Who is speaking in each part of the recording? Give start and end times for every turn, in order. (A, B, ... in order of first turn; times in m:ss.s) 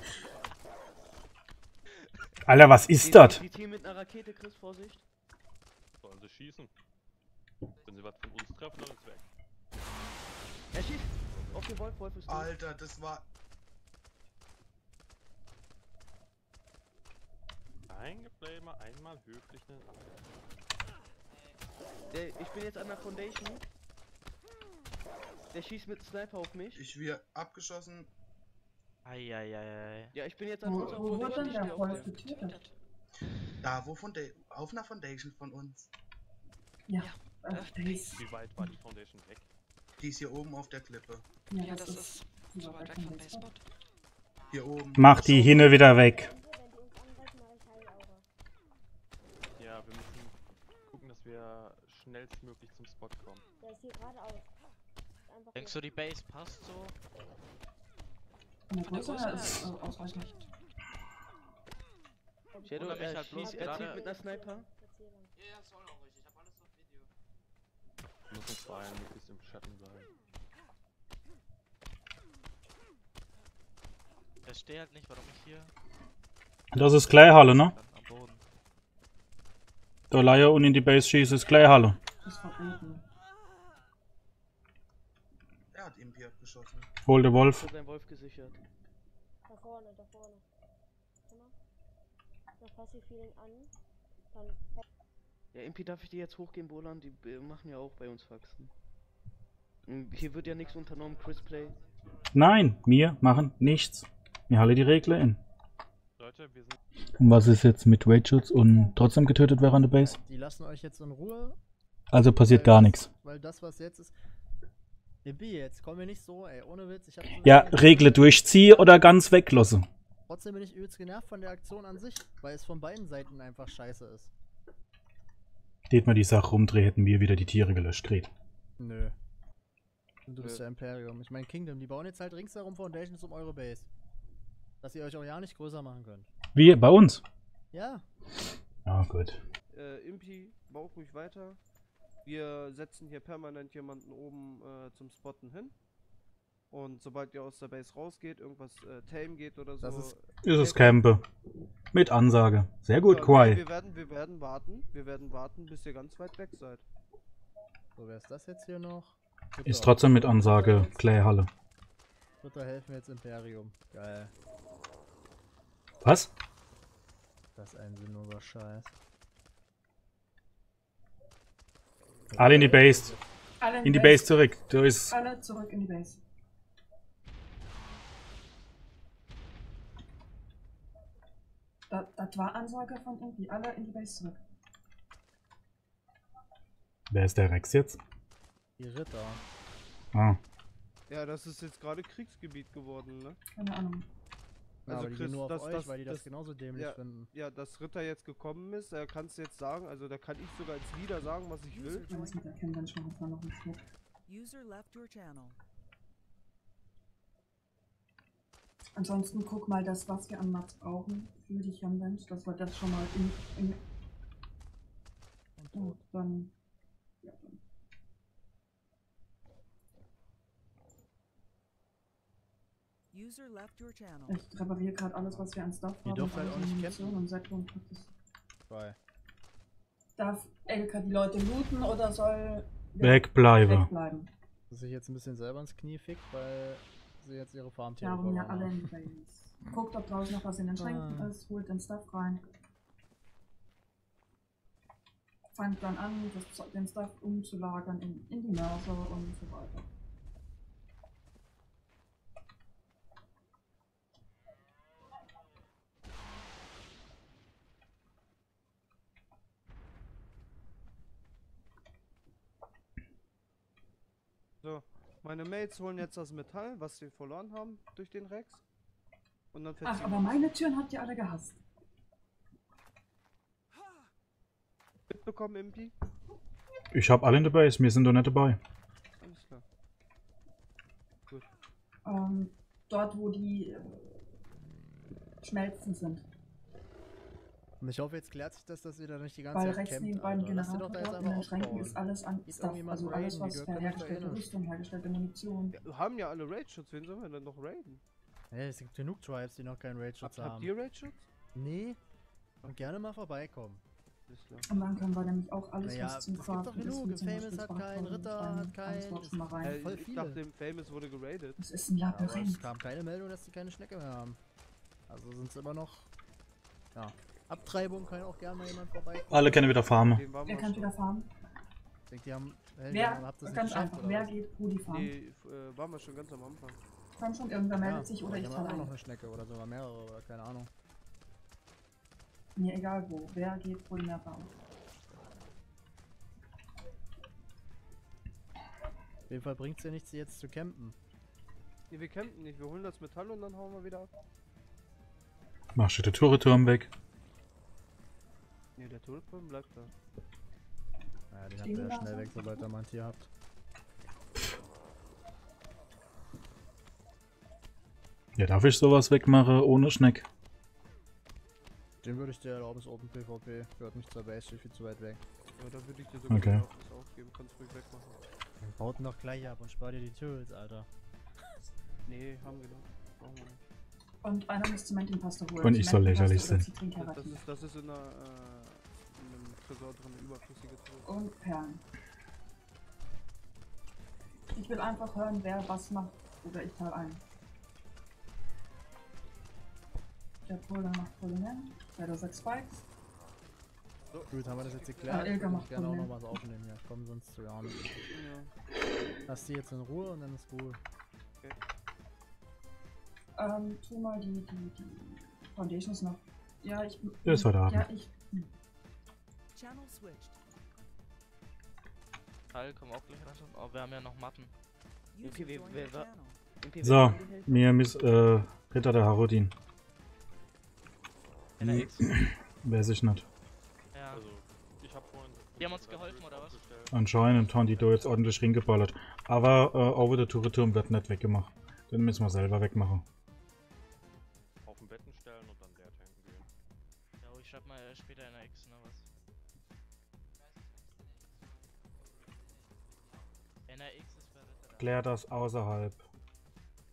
0:02.5-0:03.4 A
0:03.0-0:05.0 B
0:06.0-0:06.7 C
0:07.7-0:08.1 D
0:07.8-0:09.3 C
0:10.7-0:12.6 B
0:11.3-0:11.7 C
0:12.3-0:13.3 E
0:17.9-0:20.4 C
0:21.2-0:22.4 D
0:22.1-0:23.6 B
0:25.5-0:26.8 B
0:26.8-0:28.1 E
0:29.0-0:30.1 F
0:30.1-0:32.1 B
0:30.6-0:32.7 G
0:33.6-0:35.9 E
0:36.9-0:38.7 G
0:38.2-0:39.5 C
0:40.0-0:41.3 E
0:41.5-0:43.6 G
0:44.4-0:45.1 D
0:44.5-0:45.8 E
0:45.0-0:46.3 A
0:45.2-0:48.3 H
0:49.6-0:50.4 C
0:50.9-0:53.5 C
0:53.6-0:54.5 H
0:55.2-0:56.0 H
0:55.6-0:57.0 F
0:58.7-1:00.5 G
0:58.8-0:59.7 F
1:02.5-1:05.3 H
1:02.7-1:04.7 B
1:02.7-1:04.0 F
1:05.4-1:07.1 D
1:08.3-1:10.1 C
1:14.5-1:15.7 F
1:16.7-1:17.7 A
1:17.1-1:18.4 F
1:20.1-1:22.0 A
1:22.2-1:23.0 G
1:25.7-1:26.9 E
1:27.0-1:27.7 A
1:27.5-1:28.6 B
1:29.4-1:30.4 H
1:31.3-1:31.6 H
1:32.6-1:33.7 H
1:34.3-1:34.8 H
1:35.5-1:38.7 B
1:39.9-1:41.8 B
1:40.1-1:42.9 D
1:42.3-1:45.4 A
1:46.2-1:46.8 C
1:47.2-1:50.2 A
1:48.6-1:49.0 G
1:50.0-1:51.6 I
1:52.1-1:53.1 A
1:52.2-1:54.1 I
1:55.2-1:58.5 I
1:57.4-1:59.9 A
2:00.3-2:04.3 I
2:05.9-2:08.3 A
2:08.8-2:09.2 I
2:10.3-2:13.9 I
2:14.8-2:16.3 I
2:16.6-2:17.2 A
2:17.7-2:18.0 I
2:18.8-2:19.4 A
2:19.7-2:21.6 J
2:22.2-2:25.8 J
2:26.7-2:31.0 J
2:29.8-2:30.1 I
2:30.4-2:31.2 A
2:31.9-2:33.6 A
2:33.0-2:36.8 J
2:38.0-2:41.0 I
2:39.7-2:41.5 A
2:42.4-2:44.3 I
2:46.0-2:46.3 A
2:47.6-2:48.9 I
2:52.3-2:53.2 I
2:52.4-2:53.2 A
2:53.6-2:54.4 G
2:53.8-2:55.1 A
2:55.1-2:56.2 G
3:01.9-3:04.4 G
3:07.1-3:08.0 A
3:08.8-3:09.4 I
3:10.1-3:10.4 A
3:11.1-3:13.4 J
3:13.6-3:14.1 G
3:14.9-3:17.3 I
3:14.9-3:22.1 J
3:21.7-3:22.5 K
3:22.1-3:23.8 G
3:24.3-3:25.6 K
3:29.0-3:33.8 G
3:35.6-3:36.0 I
3:35.7-3:36.5 G
3:37.2-3:37.6 G
3:43.1-3:44.4 K
3:44.3-3:48.1 G
3:46.0-3:47.2 I
3:48.7-3:49.0 I
3:50.2-3:54.3 G
3:53.0-3:53.9 A
3:54.7-3:58.9 I
3:58.0-4:02.4 G
4:00.8-4:01.3 I
4:05.5-4:09.9 G
4:24.6-4:28.6 J
4:29.5-4:30.5 J
4:29.8-4:31.6 G
4:35.1-4:35.9 J
4:36.9-4:38.6 A
4:39.1-4:39.6 J
4:42.0-4:44.0 G
4:45.4-4:46.2 G
4:47.8-4:54.5 I
4:49.5-4:55.8 G
4:55.7-4:58.0 J
4:58.5-5:00.8 I
5:00.2-5:01.3 J
5:01.5-5:02.0 I
5:02.6-5:03.0 J
5:02.7-5:03.8 I
5:04.3-5:04.7 J
5:04.7-5:09.8 G
5:05.8-5:10.4 I
5:09.6-5:11.6 J
5:11.6-5:12.6 G
5:12.1-5:14.4 I
5:15.1-5:16.1 I
5:16.9-5:19.6 I
5:19.3-5:20.2 A
5:20.0-5:20.9 J
5:20.4-5:21.3 G
5:22.1-5:24.4 I
5:22.9-5:25.1 G
5:24.9-5:26.8 J
5:27.2-5:28.9 G
5:27.7-5:30.7 I
5:32.6-5:34.5 G
5:39.3-5:41.0 I
5:41.9-5:44.1 J
5:45.8-5:46.9 A
5:48.8-5:49.9 J
5:51.3-5:53.3 I
5:51.6-5:52.7 G
5:58.4-6:00.2 A
6:02.0-6:05.2 I
6:05.6-6:08.2 J
6:06.3-6:06.6 A
6:08.6-6:10.9 I
6:12.1-6:13.6 J
6:14.2-6:17.4 G
6:15.6-6:16.7 A
6:17.0-6:21.1 J
6:21.0-6:21.8 G
6:24.5-6:27.2 G
6:30.5-6:32.8 G
6:34.1-6:35.4 J
6:34.3-6:37.8 I
6:35.1-6:36.4 G
6:38.1-6:38.5 J
6:39.3-6:40.8 I
6:43.4-6:48.5 G
6:47.2-6:47.8 A
6:49.5-6:50.4 K
6:52.5-6:54.5 F
6:55.1-6:56.4 K
6:55.2-6:57.8 B
6:56.8-6:59.5 A
7:01.6-7:02.1 F
7:01.6-7:03.3 A
7:03.9-7:04.2 F
7:04.1-7:08.3 C
7:05.6-7:06.6 F
7:06.9-7:13.0 A
7:14.6-7:16.5 C
7:17.2-7:19.1 F
7:20.4-7:23.7 D
7:23.7-7:25.0 F
7:24.8-7:26.0 A